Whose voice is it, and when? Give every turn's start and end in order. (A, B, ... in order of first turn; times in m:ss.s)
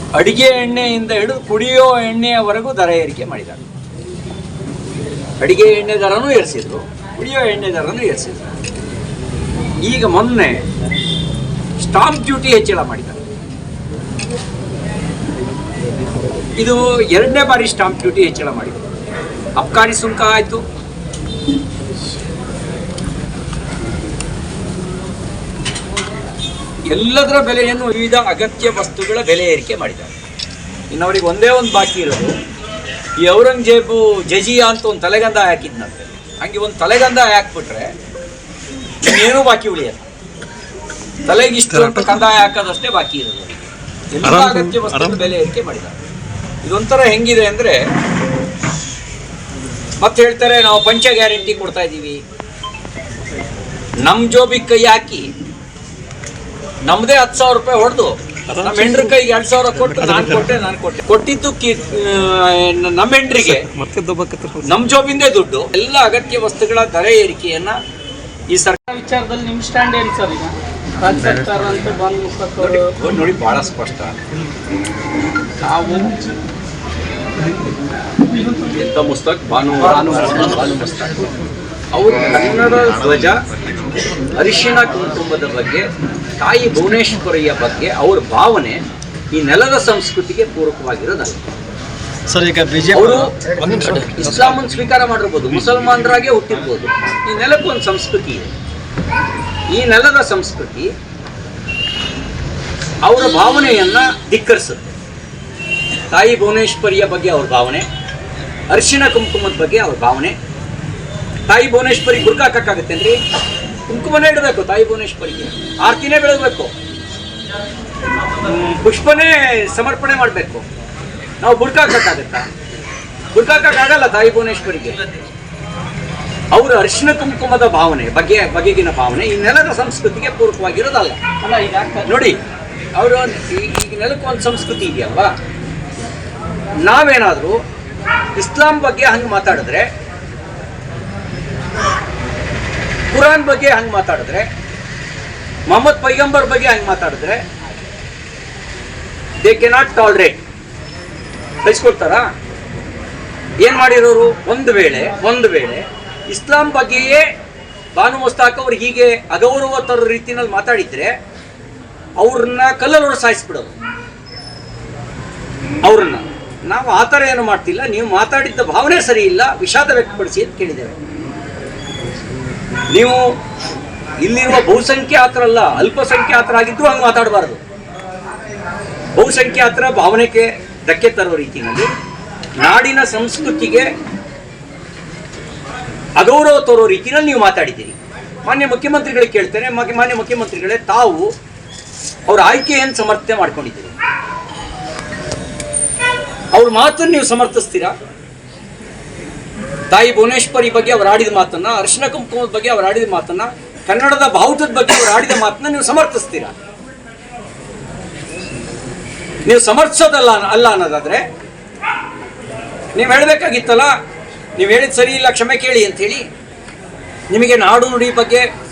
0:00.2-0:03.6 A
0:05.4-0:08.5 A
0:09.8-0:10.6 A
0:11.8-0:13.2 A
0:16.6-0:18.8 A
0:19.6-0:20.6 A
0:26.9-0:30.1 A
0:30.9-0:32.3 A
0:33.2-0:37.9 A
0:39.0-0:40.0 A
0:41.2-0:46.0 A
0:41.7-0:42.2 B
0:44.2-0:45.2 B
0:46.6-0:47.8 A
0:50.0-0:52.2 A
0:54.0-0:55.3 A
0:56.9-1:03.7 A
0:58.5-0:59.1 B
0:59.8-1:00.5 B
1:03.4-1:04.8 B
1:04.6-1:07.8 A
1:08.5-1:08.8 A
1:08.9-1:12.9 C
1:11.2-1:11.6 B
1:12.6-1:14.1 A
1:15.6-1:16.0 A
1:18.7-1:21.1 A
1:21.9-1:23.4 A
1:24.4-1:25.9 A
1:26.4-1:28.8 A
1:29.3-1:31.4 A
1:32.3-1:34.6 B
1:32.9-1:38.5 A
1:39.7-1:40.9 A
1:43.0-1:44.8 A
1:46.1-1:47.8 A
1:48.7-1:50.3 A
1:51.5-1:53.2 A
1:53.9-1:56.7 A
1:58.4-2:00.6 A
2:01.4-2:02.4 A
2:03.3-2:05.0 A
2:06.5-2:11.2 A
2:11.4-2:12.2 C
2:12.0-2:12.4 A
2:13.0-2:15.3 A
2:16.8-2:17.6 A
2:18.4-2:19.9 A
2:23.1-2:24.5 A
2:25.7-2:27.4 A
2:29.4-2:30.4 A
2:31.6-2:32.2 A
2:33.6-2:37.2 A
2:38.0-2:41.1 A
2:42.2-2:43.7 A
2:45.8-2:50.9 A
2:52.9-2:53.2 A
2:54.2-2:57.6 A
2:59.1-3:01.9 A
3:02.6-3:03.8 A
3:06.2-3:11.3 A
3:12.3-3:13.9 A
3:16.5-3:17.9 A
3:19.9-3:26.5 A
3:29.4-3:31.2 A
3:33.0-3:33.9 A
3:34.6-3:36.2 A
3:37.3-3:38.4 A